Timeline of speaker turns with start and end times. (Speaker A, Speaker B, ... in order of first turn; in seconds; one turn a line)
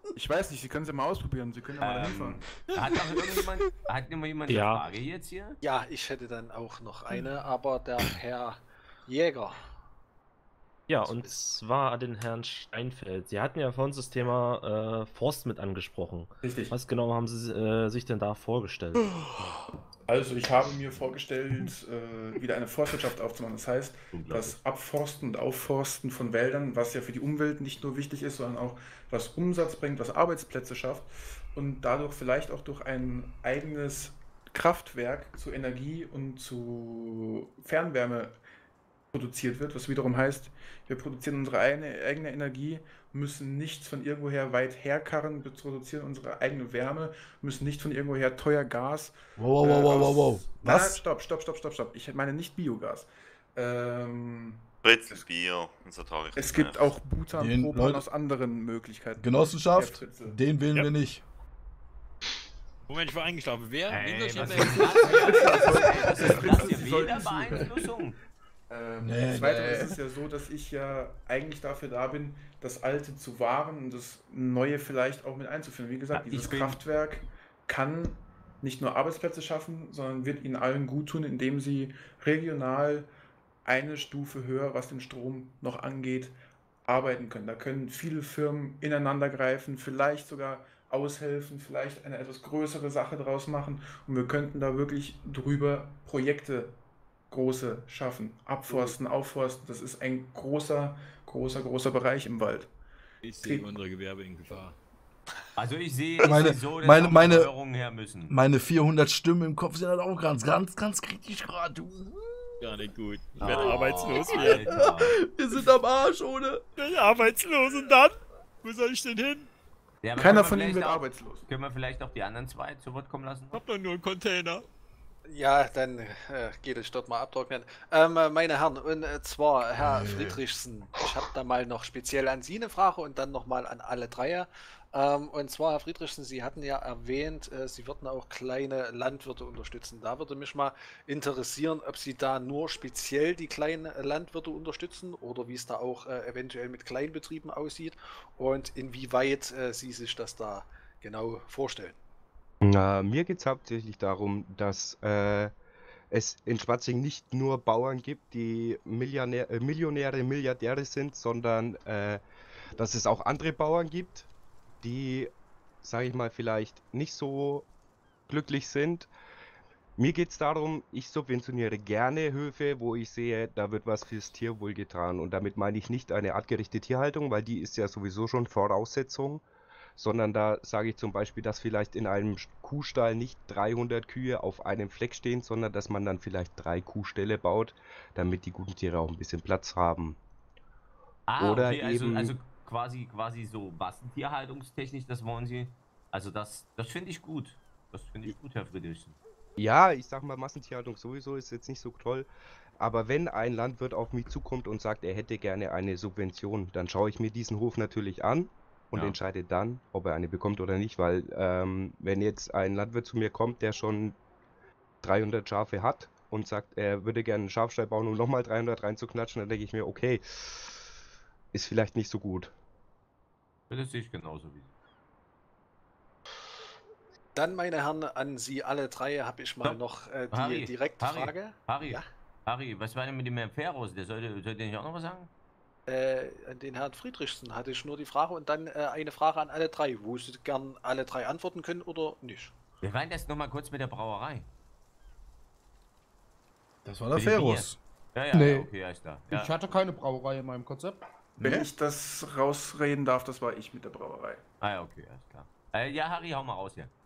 Speaker A: 0.1-2.4
Speaker B: 1.8-5.6
Speaker C: 4.5-4.8
Speaker D: 5.6-9.6
Speaker C: 10.9-19.1
Speaker D: 11.0-11.3
Speaker A: 16.4-16.7
Speaker A: 20.1-38.4
Speaker B: 24.1-24.5
Speaker A: 39.1-55.2
Speaker E: 49.4-51.0
Speaker F: 54.8-57.0
Speaker A: 56.3-60.4
Speaker E: 57.4-58.0
Speaker E: 59.2-61.2
Speaker G: 62.9-65.9
Speaker B: 63.9-68.2
Speaker A: 64.4-67.7
Speaker A: 68.7-83.1
Speaker E: 69.0-70.0
Speaker B: 76.1-76.8
Speaker A: 83.6-86.3
Speaker A: 86.8-96.8
Speaker A: 97.3-102.7
Speaker G: 103.2-104.8
Speaker A: 103.4-103.7
Speaker B: 105.5-108.3
Speaker E: 106.2-107.5
Speaker E: 108.3-112.5
Speaker G: 112.6-114.9
Speaker B: 113.4-115.1
Speaker E: 114.7-116.6
Speaker G: 116.8-119.5
Speaker B: 120.0-123.6
Speaker A: 120.2-121.5
Speaker G: 123.5-124.6
Speaker D: 125.3-152.0
Speaker E: 129.8-130.4
Speaker H: 152.6-155.5
Speaker H: 156.1-162.2
Speaker H: 162.7-164.3
Speaker H: 164.8-165.3
Speaker H: 165.8-167.7
Speaker H: 168.3-169.1
Speaker H: 170.0-179.4
Speaker H: 179.9-190.2
Speaker B: 191.3-199.2
Speaker H: 191.4-192.3
Speaker H: 199.6-202.3
Speaker H: 202.8-214.2
Speaker H: 215.0-220.2
Speaker H: 221.5-222.5
Speaker B: 223.7-224.7
Speaker D: 227.3-232.1
Speaker B: 229.6-235.3
Speaker D: 235.9-242.5
Speaker B: 242.8-244.4
Speaker E: 246.8-247.8
Speaker B: 247.2-249.5
Speaker I: 248.3-248.7
Speaker I: 249.3-251.0
Speaker E: 251.4-251.7
Speaker A: 251.4-254.4
Speaker B: 254.6-256.9